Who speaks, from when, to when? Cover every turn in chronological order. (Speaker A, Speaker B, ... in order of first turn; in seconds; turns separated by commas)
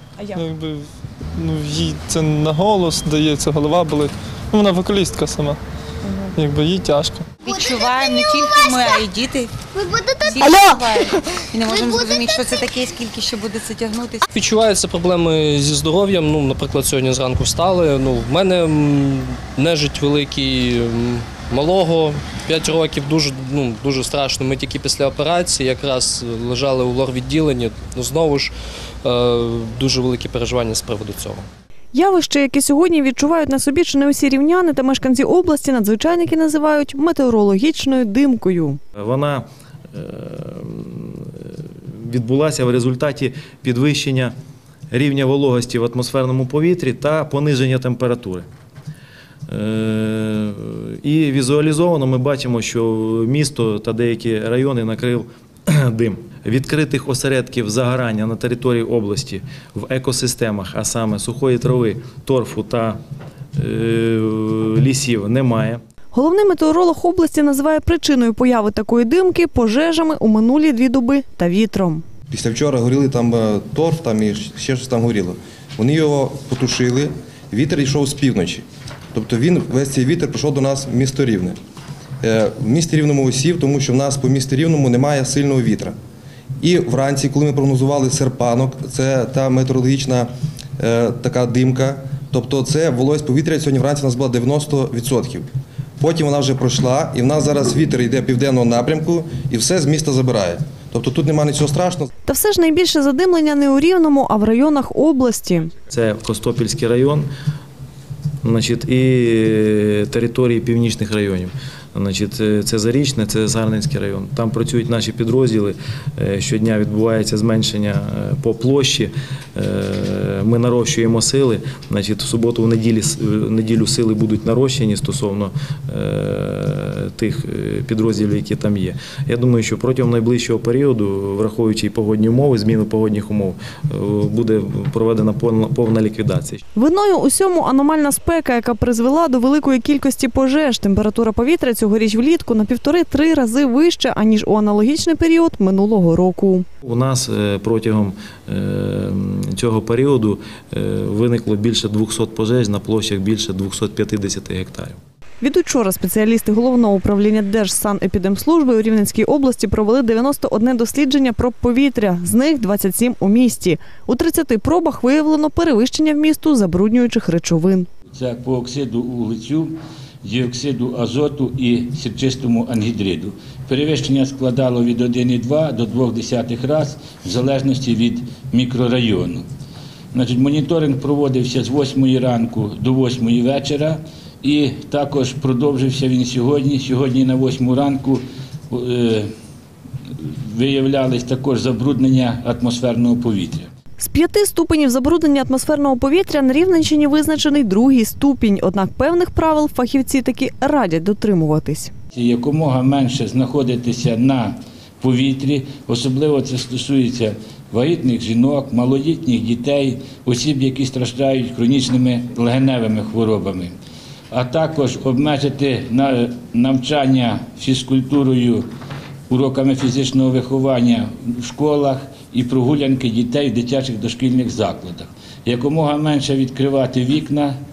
Speaker A: 0.3-5.6, Speaker A: 6.3-7.2, Speaker B: 7.5-9.1, Speaker C: 7.5-9.5, Speaker B: 9.9-10.9, Speaker C: 10.2-14.2, Speaker B: 11.5-12.7, Speaker D: 14.3-28.5, Speaker D: 29.0-31.4, Speaker E: 31.9-38.8, Speaker F: 39.0-44.3, Speaker F: 44.9-48.5, Speaker F: 49.5-63.0, Speaker F: 63.5-65.8, Speaker E: 66.1-72.0, Speaker G: 72.3-81.5, Speaker G: 82.2-86.0, Speaker G: 86.6-90.3, Speaker G: 90.8-95.5, Speaker G: 96.0-102.1, Speaker E: 102.2-105.7, Speaker F: 105.9-107.3, Speaker F: 108.4-136.6, Speaker E: 136.8-146.7, Speaker F: 146.8-155.0, Speaker E: 155.4-167.9, Speaker H: 168.1-179.4, Speaker H: 180.1-189.3, Speaker H: 190.2-193.7, Speaker E: 194.0-201.9, Speaker H: 202.1-213.7, Speaker H: 214.3-218.7, Speaker H: 219.3-227.6